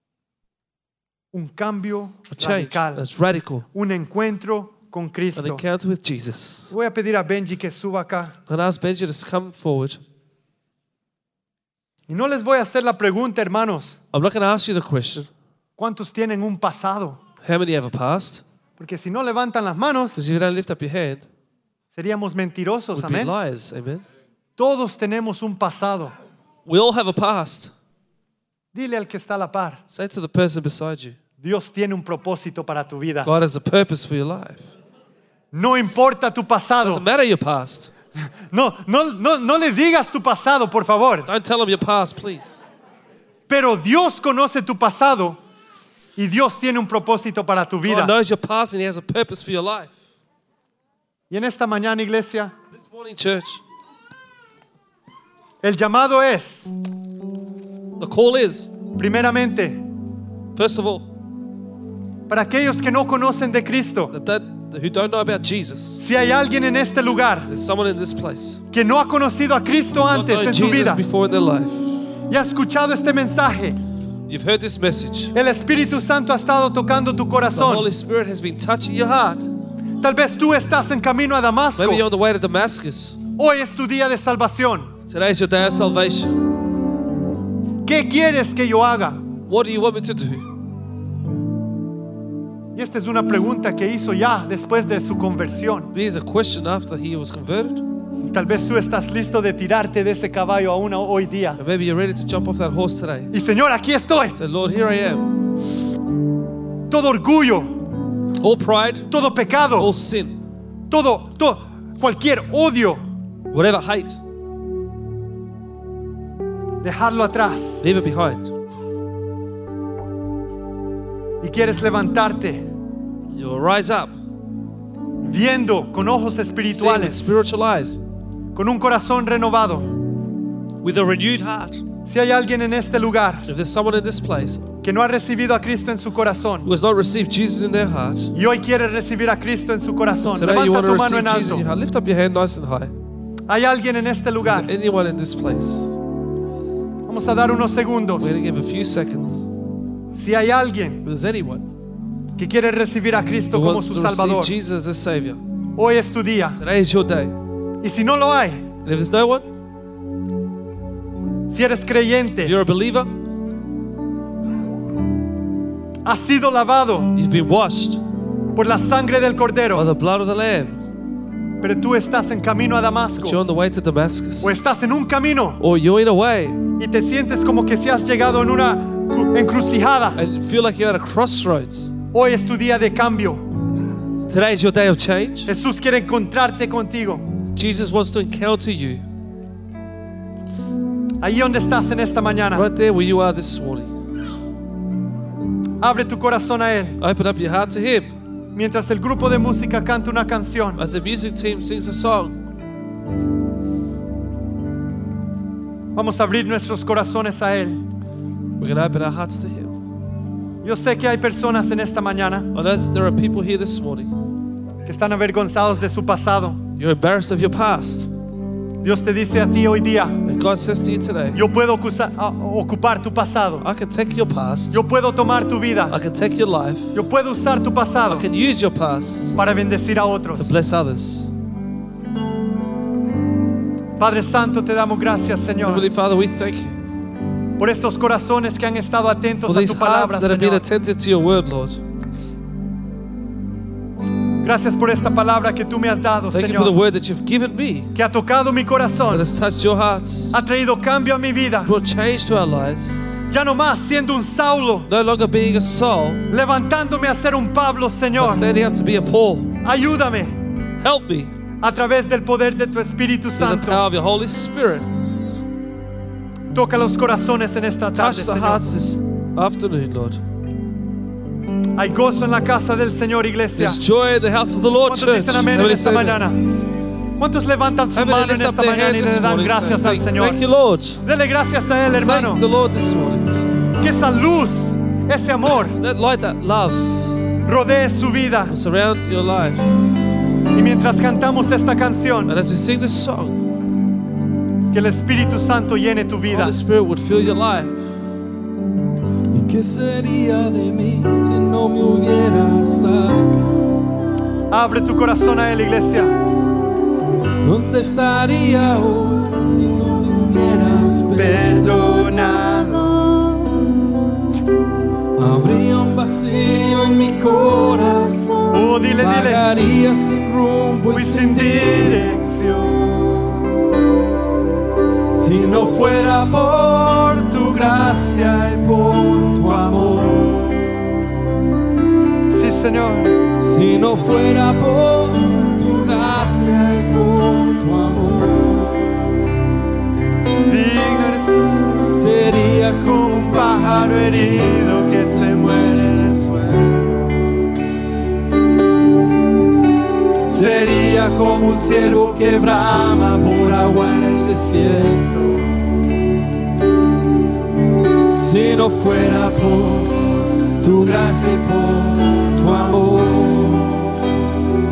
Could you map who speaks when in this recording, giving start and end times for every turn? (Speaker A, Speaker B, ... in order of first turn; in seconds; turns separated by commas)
Speaker A: 1.3-3.1, Speaker B: 2.3-3.7, Speaker A: 3.7-5.6, Speaker B: 5.3-6.8, Speaker A: 6.7-8.4, Speaker B: 8.5-10.0, Speaker A: 12.1-14.0, Speaker B: 14.1-15.3, Speaker A: 15.8-17.2, Speaker B: 17.4-18.4, Speaker A: 18.8-20.2, Speaker B: 20.2-21.3, Speaker A: 21.9-23.3, Speaker B: 22.9-24.1, Speaker A: 24.6-26.1, Speaker B: 26.7-27.7, Speaker A: 28.7-29.8, Speaker B: 29.9-31.2, Speaker A: 31.4-33.3, Speaker B: 33.2-34.7, Speaker A: 35.5-37.0, Speaker B: 36.8-37.9, Speaker A: 38.5-41.3, Speaker B: 41.3-42.5, Speaker A: 43.5-45.4, Speaker A: 46.2-48.2, Speaker B: 47.9-49.9, Speaker A: 51.3-52.5, Speaker B: 52.7-53.6, Speaker A: 55.6-56.7, Speaker B: 58.0-58.7, Speaker A: 59.0-59.8, Speaker B: 60.5-61.1, Speaker A: 62.3-64.1, Speaker B: 64.1-66.1, Speaker A: 66.0-67.5, Speaker B: 67.5-68.6, Speaker A: 68.7-71.0, Speaker B: 70.0-72.0, Speaker A: 72.3-73.8, Speaker B: 74.3-75.3, Speaker A: 75.3-77.9, Speaker B: 77.5-79.5, Speaker A: 80.0-82.0, Speaker B: 81.8-83.2, Speaker A: 83.4-84.9, Speaker B: 85.1-86.4, Speaker A: 87.8-89.2, Speaker B: 89.5-90.5, Speaker A: 92.8-95.9, Speaker B: 95.9-97.8, Speaker A: 98.2-101.6, Speaker B: 101.6-103.3, Speaker A: 103.3-104.4, Speaker B: 104.3-105.3, Speaker A: 106.9-107.7, Speaker B: 108.4-109.1, Speaker A: 109.1-109.9, Speaker B: 109.8-110.4, Speaker A: 110.9-113.0, Speaker B: 113.5-114.2, Speaker A: 116.8-117.8, Speaker B: 117.8-118.5, Speaker A: 121.4-122.7, Speaker B: 123.3-124.1, Speaker A: 125.2-127.4, Speaker B: 126.7-128.0, Speaker A: 128.6-129.9, Speaker B: 130.8-131.8, Speaker A: 132.1-133.5, Speaker B: 133.5-134.6, Speaker A: 134.8-136.7, Speaker B: 136.6-138.3, Speaker A: 138.3-141.7, Speaker B: 140.2-142.9, Speaker A: 143.5-144.7, Speaker B: 144.4-146.0, Speaker A: 147.1-148.4, Speaker B: 148.2-149.5, Speaker A: 150.2-151.1, Speaker B: 151.1-151.7, Speaker A: 152.4-154.5, Speaker B: 153.5-155.4, Speaker A: 155.8-156.6, Speaker B: 156.6-157.3, Speaker A: 157.8-158.7, Speaker B: 158.8-159.5, Speaker A: 161.5-162.5, Speaker B: 162.4-163.1, Speaker A: 166.1-167.1, Speaker B: 167.2-168.0, Speaker A: 168.6-169.9, Speaker B: 169.7-170.8, Speaker A: 171.6-173.4, Speaker B: 173.2-174.5, Speaker A: 174.4-175.6, Speaker B: 175.6-176.6, Speaker A: 176.8-180.2, Speaker B: 180.2-181.9, Speaker A: 182.1-183.4, Speaker B: 184.3-185.5, Speaker A: 185.5-187.3, Speaker B: 187.6-189.0, Speaker A: 191.2-192.7, Speaker B: 192.5-193.9, Speaker A: 195.8-197.0, Speaker B: 197.0-198.1, Speaker A: 198.6-200.8, Speaker B: 200.8-202.4, Speaker A: 206.0-207.8, Speaker B: 208.6-209.8, Speaker A: 210.6-212.5, Speaker B: 212.5-214.2, Speaker A: 214.9-216.6, Speaker B: 216.8-218.1, Speaker A: 218.8-220.2, Speaker B: 220.2-221.4, Speaker A: 221.3-223.7, Speaker B: 223.6-224.8, Speaker A: 224.7-226.0, Speaker B: 225.9-227.0, Speaker A: 226.9-228.3, Speaker B: 228.1-229.4, Speaker A: 229.3-230.5, Speaker B: 230.3-231.3, Speaker A: 234.0-235.9, Speaker B: 235.6-236.8, Speaker A: 237.6-240.6, Speaker B: 239.5-241.8, Speaker A: 244.4-246.7, Speaker B: 246.3-247.9, Speaker A: 247.9-249.3, Speaker B: 249.1-250.5, Speaker A: 250.3-251.7, Speaker B: 251.7-253.3, Speaker A: 253.3-254.9, Speaker B: 254.9-256.2, Speaker A: 256.3-258.5, Speaker B: 258.2-259.6, Speaker A: 259.6-260.4, Speaker B: 260.8-261.3, Speaker A: 261.6-263.9, Speaker B: 263.4-264.9, Speaker A: 266.5-268.7, Speaker B: 267.9-270.2, Speaker A: 271.8-273.8, Speaker B: 273.6-276.3, Speaker A: 274.8-276.4, Speaker A: 277.2-280.4, Speaker B: 277.9-281.0, Speaker A: 281.0-282.4, Speaker B: 282.0-283.4, Speaker A: 283.8-285.8, Speaker B: 285.8-287.0, Speaker A: 287.4-288.6, Speaker B: 288.5-289.7, Speaker A: 290.5-292.4, Speaker B: 292.3-293.4, Speaker A: 294.7-296.6, Speaker B: 296.3-297.9, Speaker C: 299.3-303.6, Speaker A: 304.5-306.1, Speaker C: 307.4-313.3, Speaker A: 311.1-312.9, Speaker C: 315.2-322.4, Speaker A: 318.5-319.5, Speaker A: 320.9-322.8, Speaker C: 325.1-330.3, Speaker A: 329.4-330.5, Speaker A: 332.3-333.1, Speaker C: 333.4-339.0, Speaker A: 340.5-341.4, Speaker C: 341.9-346.7, Speaker A: 344.4-345.4, Speaker A: 346.8-347.1, Speaker C: 350.3-355.1, Speaker C: 358.1-363.9